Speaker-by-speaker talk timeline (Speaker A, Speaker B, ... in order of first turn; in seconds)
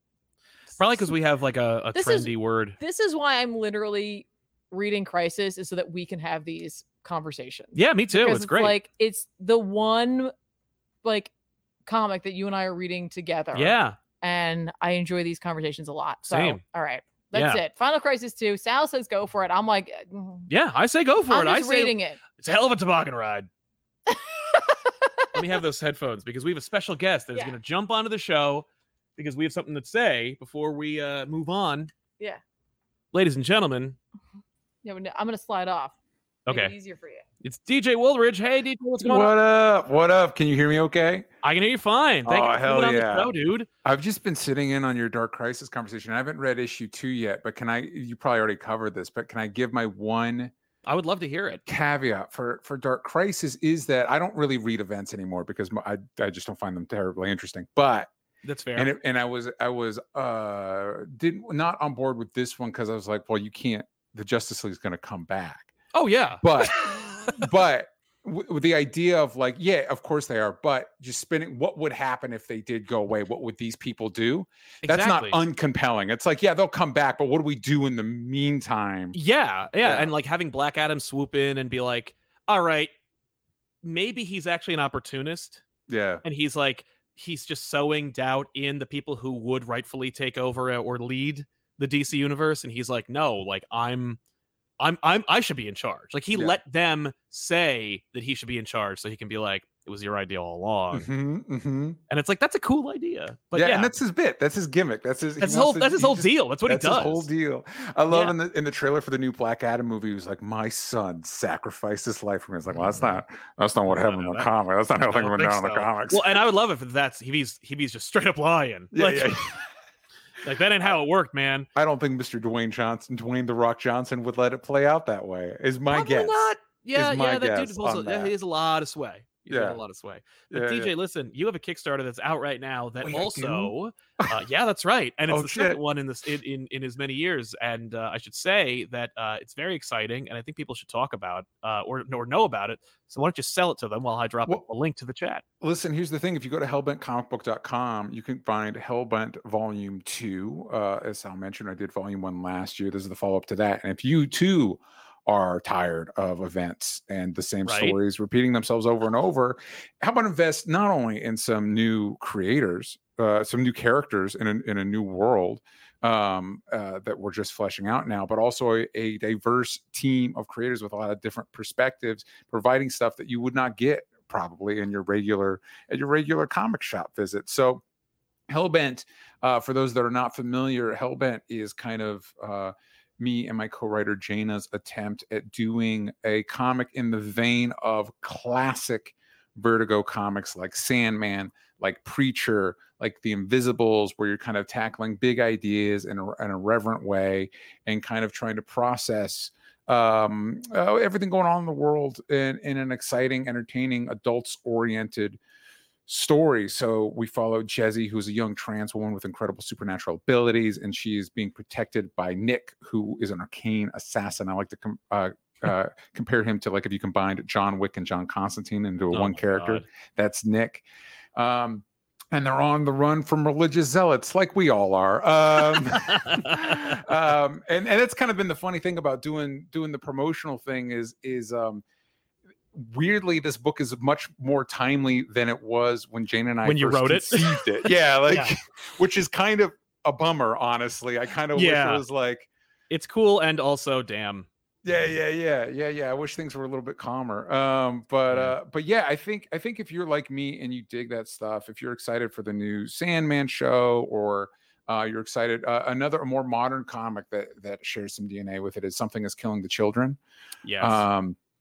Speaker A: 0.8-2.8, 7.7-8.8, 13.5-14.0, 16.3-16.6, 17.3-17.6, 20.5-23.5, 25.3-28.6, 29.2-31.9, 33.1-34.0, 36.5-36.7, 37.4-39.3, 41.4-43.7, 50.9-51.6, 58.4-58.9, 65.9-67.4, 74.8-75.4, 79.1-82.9, 83.8-85.6, 86.2-94.2, 94.8-101.1, 102.1-103.9, 105.4-107.3, 113.9-114.5, 115.1-119.4, 120.4-121.7, 125.9-145.4, 157.6-158.0, 219.1-219.8, 226.0-226.9, 236.6-238.5, 241.5-242.0, 242.9-244.5, 248.3-248.6, 260.6-261.0
Speaker B: 1.9-10.3, 11.0-11.3, 11.8-20.5, 21.3-22.2, 24.1-25.4, 34.8-35.9, 36.5-37.2
Speaker C: 39.0-41.2, 42.2-43.3, 43.8-50.5, 51.7-58.1, 58.8-65.7, 66.4-79.2, 79.8-80.1, 85.9-86.2, 100.9-102.0, 103.5-116.4, 118.9-119.6, 121.8-128.3, 129.5-129.8, 130.5-130.9, 133.0-134.3, 135.3-135.8, 145.6-177.8, 178.5-205.4, 206.1-220.8, 221.3-231.8, 232.7-242.5, 244.8-260.2, 260.8-261.4